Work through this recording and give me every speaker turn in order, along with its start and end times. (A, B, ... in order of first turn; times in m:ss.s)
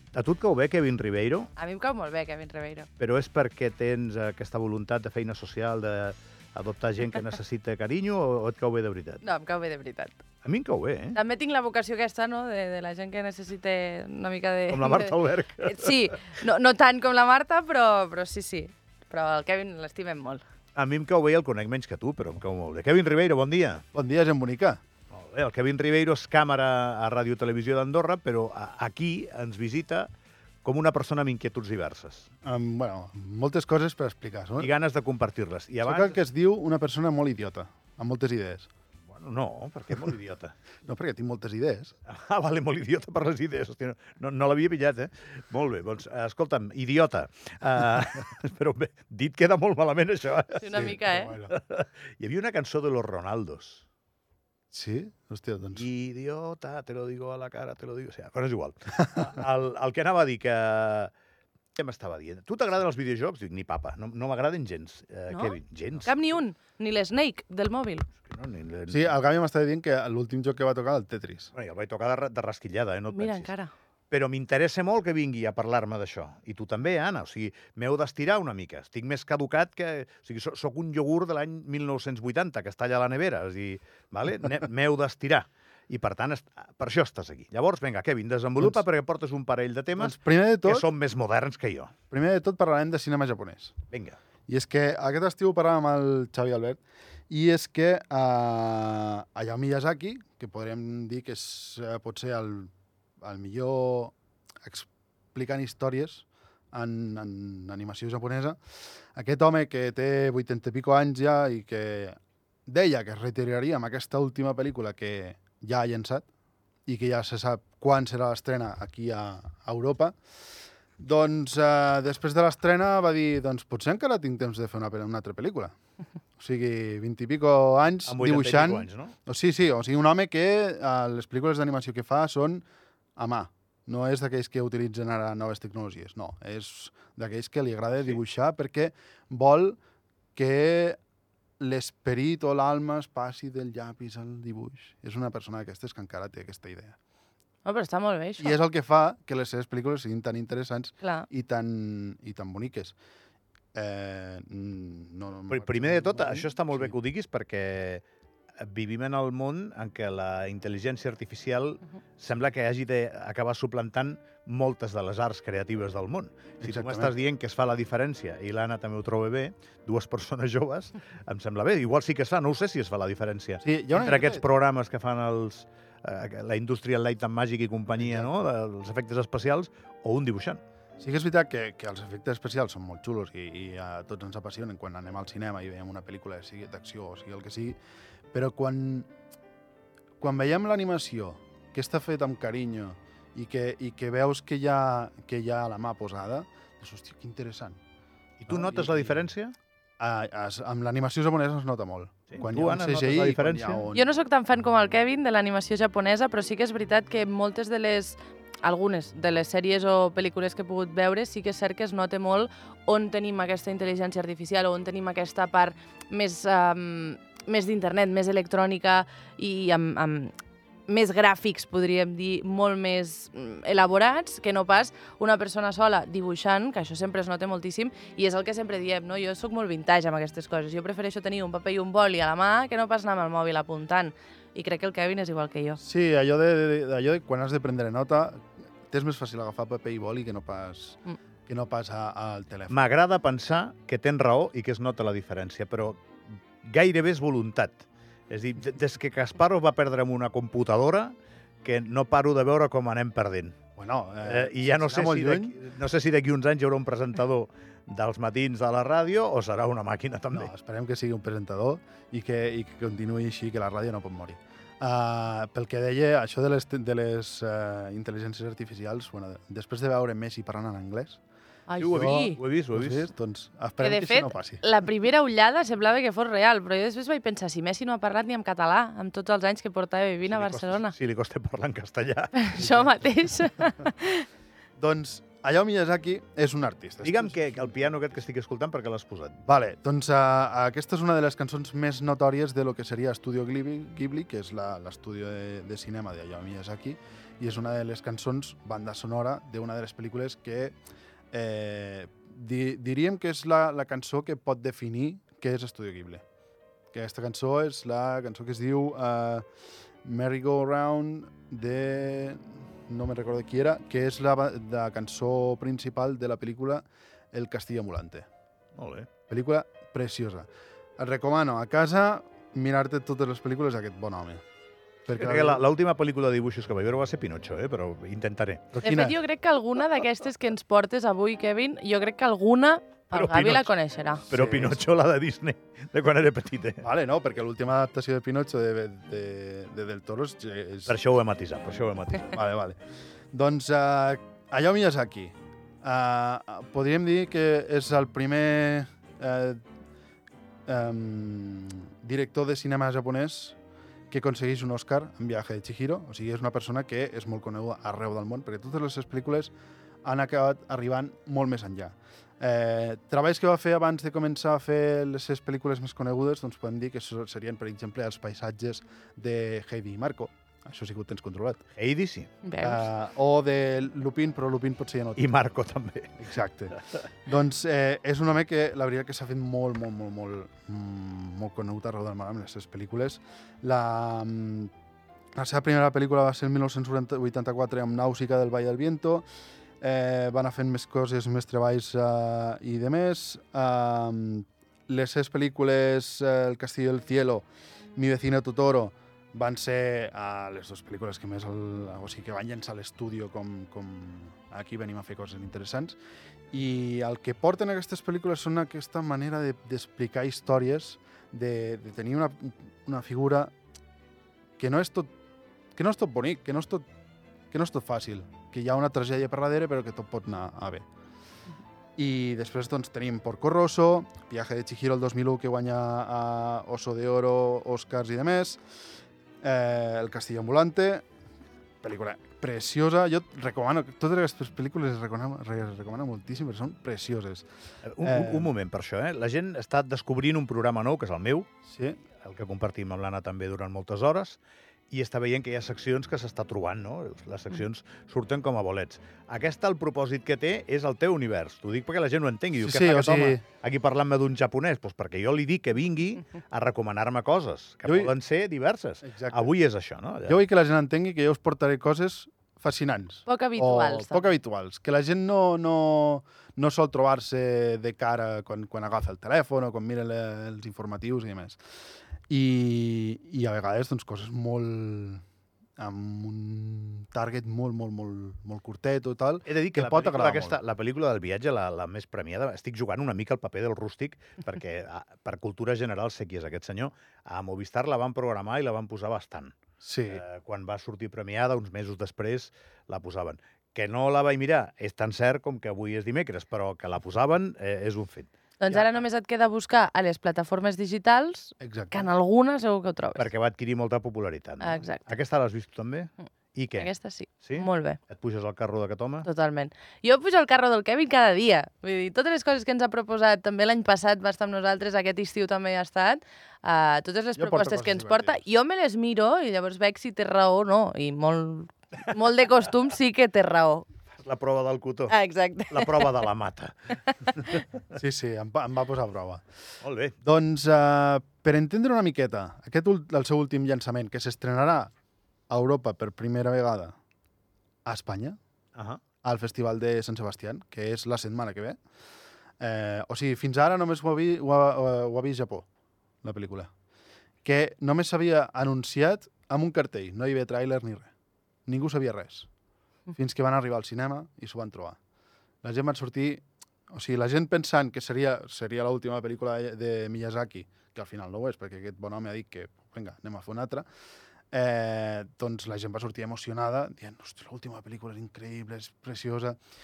0:00.1-0:01.5 A
0:01.6-0:02.9 B
0:03.0-0:09.2 A
0:09.2-0:10.2 B
0:10.4-0:11.2 A
0:11.1-0:20.4 B
0:14.7-0:16.0 A
0:20.8-0:23.8 A
0:23.9-0:24.8 C
0:25.1-0:30.1 A
0:30.6-0:32.3 A
0:32.4-0:34.7 C
0:34.6-0:36.2 A
0:35.8-0:38.7 C
0:39.1-0:40.5 A
0:40.8-0:42.0 C
0:42.1-0:53.8 A
0:50.6-0:51.4 B
0:50.7-0:51.5 C
0:54.7-0:55.8 C
0:55.7-1:01.1 A
1:01.8-1:06.2 A
1:05.3-1:08.1 B
1:08.2-1:09.2 A
1:08.9-1:11.5 C
1:11.5-1:13.5 A
1:13.1-1:13.7 B
1:14.1-1:31.9 A
1:30.0-1:30.9 C
1:32.1-1:33.7 C
1:33.9-1:34.2 A
1:34.5-1:48.6 C
1:49.2-1:56.3 C
1:56.9-2:00.2 C
2:01.0-2:05.7 C
2:06.4-2:12.7 C
2:08.1-2:09.2 A
2:13.2-2:19.8 C
2:20.4-2:21.0 C
2:21.6-2:27.0 C
2:27.6-2:28.6 B
2:28.4-2:33.0 C
2:31.0-2:31.3 B
2:33.7-2:37.0 C
2:35.5-2:38.0 A
2:38.6-3:00.6 A
2:46.6-2:47.2 C
2:53.6-2:54.4 C
2:57.9-2:58.3 C
3:01.0-3:07.8 C
3:08.3-3:09.1 C
3:10.2-3:17.8 C
3:18.4-3:19.6 A
3:18.5-3:19.3 C
3:20.0-3:24.1 C
3:22.3-3:23.8 A
3:23.9-3:40.3 B
3:40.9-3:55.8 B
3:55.8-4:02.8 C
4:02.7-4:06.0 A
4:06.6-4:13.6 A
4:13.8-4:15.6 C
4:14.2-4:20.5 A
4:20.3-4:31.2 C
4:31.7-4:32.4 B
4:31.8-4:33.1 A
4:31.9-4:34.6 C
4:33.8-4:40.9 B
4:40.3-4:42.4 A
4:42.4-4:44.3 B
4:42.6-4:43.0 C
4:44.8-4:47.5 C
4:47.0-4:49.4 A
4:49.5-5:00.8 C
5:01.3-5:06.2 C
5:06.9-5:09.5 C
5:10.0-5:18.3 C
5:18.8-5:19.1 A
5:19.3-5:24.4 C
5:25.1-5:25.6 C
5:25.2-5:28.7 A
5:28.7-5:29.2 C
5:28.8-5:34.3 B
5:33.1-5:33.7 A
5:34.3-5:34.8 C
5:34.3-5:36.8 A
5:36.8-5:41.0 C
5:40.9-5:42.4 A
5:42.3-5:42.8 C
5:43.3-5:49.6 C
5:50.7-5:53.6 C
5:54.1-5:59.5 C
6:00.0-6:11.6 C
6:11.8-6:12.3 A
6:12.4-6:12.9 B
6:12.6-6:15.3 C
6:15.2-6:16.1 A
6:16.2-6:24.7 C
6:25.4-6:29.3 C
6:29.8-6:46.0 C
6:46.5-6:53.5 C
6:54.6-6:55.1 C
6:55.8-6:56.8 C
6:57.5-7:00.8 C
7:02.0-7:08.6 C
7:09.4-7:11.1 C
7:11.8-7:17.5 C
7:17.8-7:21.5 A
7:18.0-7:18.5 C
7:21.7-7:22.0 C
7:22.2-7:24.4 A
7:24.9-7:40.4 A
7:32.6-7:33.4 C
7:37.9-7:38.1 C
7:39.0-7:39.5 C
7:40.3-7:51.6 C
7:43.3-7:44.3 B
7:52.3-7:55.2 C
7:55.8-8:00.6 C
7:59.4-8:09.6 A
8:09.8-8:10.2 C
8:10.1-8:18.3 A
8:18.6-8:23.3 B
8:21.6-8:22.1 C
8:23.2-8:26.9 A
8:24.6-8:25.0 B
8:26.7-8:28.0 B
8:27.4-8:29.3 A
8:29.2-8:43.9 B
8:37.4-8:38.4 C
8:44.2-8:45.1 A
8:45.1-8:46.1 B
8:45.7-8:47.5 A
8:47.9-8:49.4 C
8:49.8-8:50.2 A
8:50.2-8:54.9 C
8:55.5-8:57.0 C
8:57.8-8:58.4 C
8:58.8-8:59.0 A
8:59.2-9:01.8 C
9:02.6-9:05.7 C
9:06.2-9:06.7 C
9:07.4-9:11.1 C
9:11.7-9:12.5 C
9:13.1-9:15.0 C
9:15.6-9:23.9 C
9:24.5-9:29.6 C